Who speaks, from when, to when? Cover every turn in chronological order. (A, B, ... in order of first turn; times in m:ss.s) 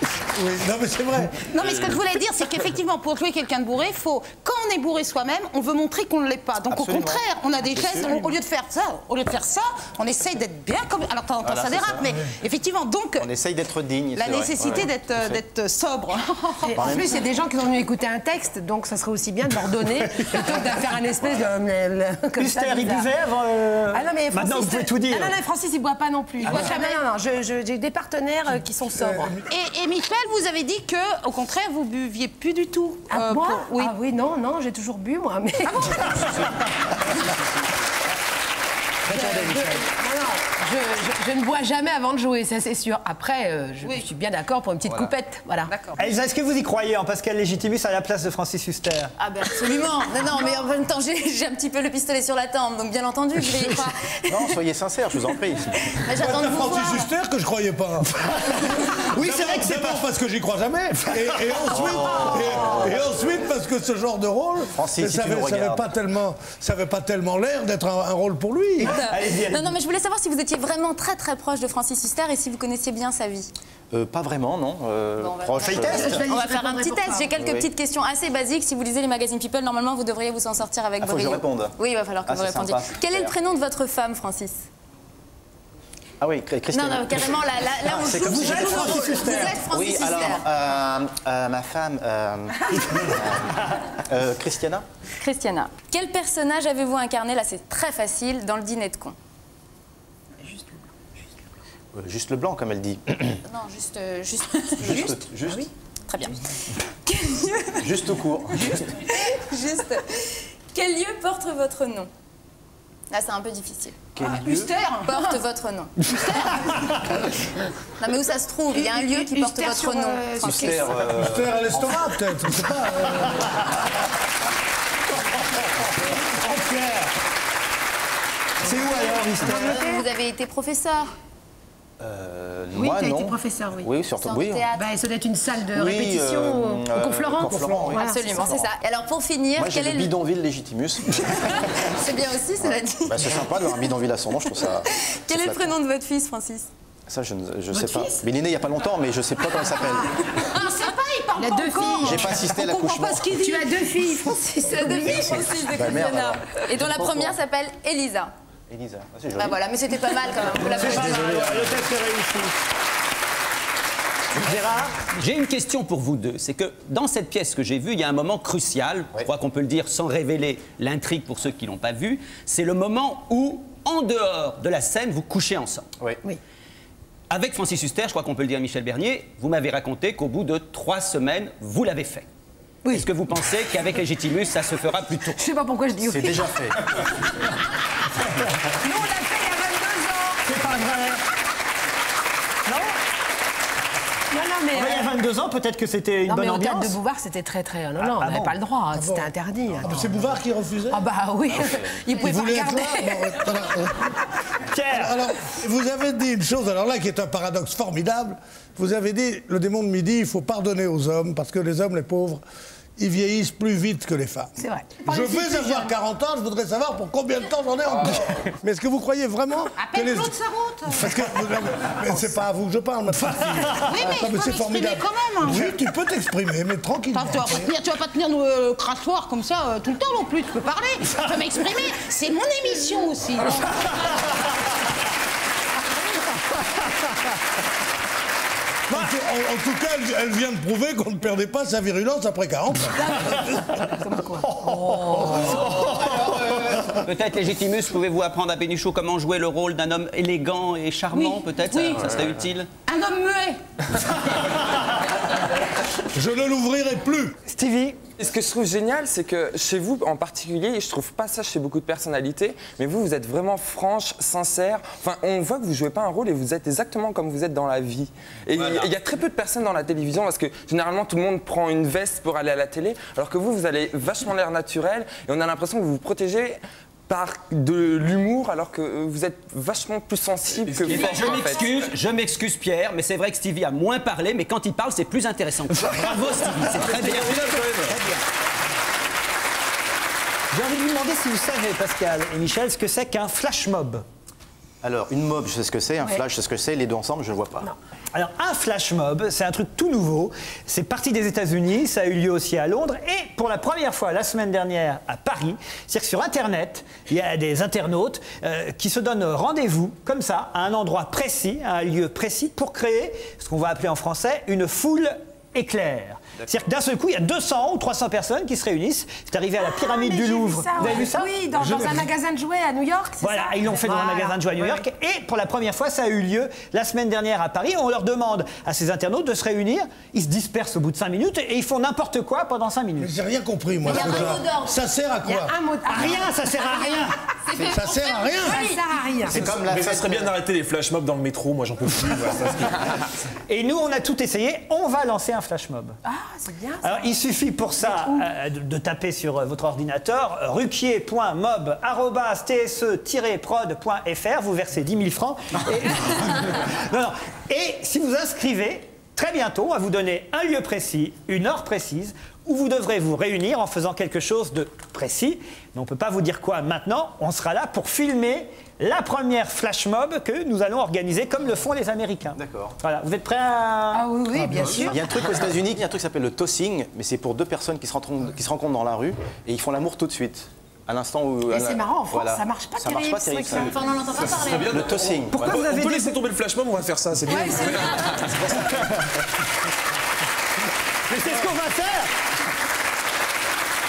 0:00.3-0:01.4 A
0:01.5-0:13.3 B
0:06.7-0:08.2 C
0:11.4-0:12.1 C
0:13.2-0:15.4 C
0:14.1-0:17.1 B
0:16.6-0:23.1 D
0:16.7-0:17.2 C
0:20.2-0:20.8 E
0:22.4-0:25.4 E
0:23.9-0:29.4 D
0:26.4-0:26.7 E
0:26.4-0:27.1 B
0:29.5-0:34.0 B
0:33.1-0:36.2 D
0:35.6-0:36.4 B
0:39.1-0:45.8 D
0:39.1-0:39.8 E
0:43.8-0:44.1 B
0:45.6-0:46.1 B
0:46.0-0:49.1 E
0:49.2-0:54.5 F
0:53.4-0:55.8 C
0:56.0-0:57.1 F
0:56.2-0:58.1 A
0:58.2-1:00.1 E
0:58.8-1:08.9 A
1:01.0-1:02.8 E
1:01.8-1:03.0 C
1:04.7-1:05.9 C
1:08.8-1:09.8 E
1:08.9-1:13.5 F
1:13.9-1:16.3 C
1:15.2-1:24.6 F
1:15.6-1:17.3 D
1:15.6-1:16.3 E
1:17.4-1:17.7 C
1:21.0-1:23.4 C
1:26.2-1:34.8 C
1:26.7-1:30.4 F
1:28.1-1:29.6 E
1:35.1-1:39.2 F
1:41.9-1:43.4 C
1:43.4-1:44.9 F
1:44.8-1:45.7 C
1:46.1-1:46.4 F
1:47.0-1:47.9 F
1:47.8-1:48.9 C
1:48.5-1:50.0 F
1:50.7-1:52.1 F
1:53.1-1:54.0 F
1:54.1-1:54.7 C
1:54.2-1:55.4 B
1:55.0-1:56.4 F
1:56.1-1:57.1 B
1:58.0-2:01.0 F
1:58.9-2:00.4 D
2:00.4-2:02.0 C
2:01.1-2:03.6 A
2:02.8-2:03.3 E
2:05.6-2:07.1 E
2:08.6-2:09.8 E
2:08.8-2:11.1 F
2:09.4-2:10.0 D
2:12.0-2:14.7 C
2:12.7-2:13.9 D
2:14.2-2:14.9 F
2:14.7-2:16.9 D
2:15.7-2:18.7 C
2:16.9-2:20.1 F
2:17.8-2:18.5 D
2:19.6-2:21.9 C
2:21.4-2:23.9 F
2:22.6-2:25.7 C
2:24.6-2:26.7 F
2:27.1-2:30.3 C
2:27.7-2:28.2 D
2:30.6-2:34.1 B
2:31.4-2:32.4 D
2:32.0-2:33.7 C
2:33.4-2:35.3 D
2:34.6-2:38.3 F
2:34.7-2:37.4 C
2:38.7-2:39.6 C
2:39.4-2:41.5 F
2:40.5-2:41.7 C
2:40.7-2:42.5 E
2:44.4-2:44.9 E
2:45.2-2:55.8 G
2:57.3-3:02.3 G
3:02.9-3:05.4 G
3:05.4-3:06.6 D
3:06.0-3:06.8 C
3:08.8-3:10.4 D
3:10.4-3:11.2 E
3:14.3-3:15.1 D
3:14.7-3:17.0 E
3:16.2-3:20.2 D
3:18.0-3:18.6 E
3:18.9-3:21.0 A
3:20.9-3:23.7 D
3:21.5-3:22.0 C
3:22.2-3:24.1 A
3:24.7-3:25.2 E
3:24.9-3:32.4 A
3:33.0-3:34.5 A
3:34.6-3:35.9 D
3:35.0-3:40.3 A
3:37.8-3:38.5 H
3:39.8-3:41.2 B
3:40.9-3:47.7 A
3:43.1-3:44.0 E
3:43.9-3:45.7 B
3:47.1-3:54.2 B
3:56.7-3:57.1 E
3:58.9-4:03.6 A
4:03.0-4:05.6 D
4:04.4-4:06.8 E
4:05.5-4:12.7 G
4:11.1-4:12.1 B
4:12.9-4:13.6 B
4:16.1-4:17.3 A
4:17.5-4:18.0 E
4:18.2-4:41.7 H
4:28.6-4:28.8 G
4:40.7-4:41.4 I
4:40.8-4:47.5 G
4:46.0-4:46.9 E
4:46.8-4:47.7 C
4:50.5-4:54.0 E
4:54.8-4:57.7 C
4:58.1-5:21.9 E
5:19.6-5:24.8 D
5:21.6-5:22.0 A
5:23.2-5:33.1 E
5:33.0-5:36.2 A
5:33.8-5:34.7 F
5:34.0-5:34.3 E
5:35.2-5:36.9 D
5:35.8-5:37.2 E
5:37.4-5:38.8 F
5:37.7-5:38.7 A
5:38.4-5:39.5 D
5:39.2-5:40.3 C
5:39.4-5:42.7 I
5:43.5-5:45.9 E
5:46.0-5:47.1 D
5:46.8-6:14.1 E
5:47.8-5:48.2 D
6:12.3-6:12.7 C
6:13.9-6:15.0 D
6:14.7-6:23.8 C
6:21.5-6:23.7 D
6:23.6-6:24.7 F
6:24.7-6:25.4 C
6:24.7-6:27.9 I
6:25.3-6:26.2 E
6:27.3-6:27.6 D
6:28.5-6:28.9 E
6:31.1-6:32.1 E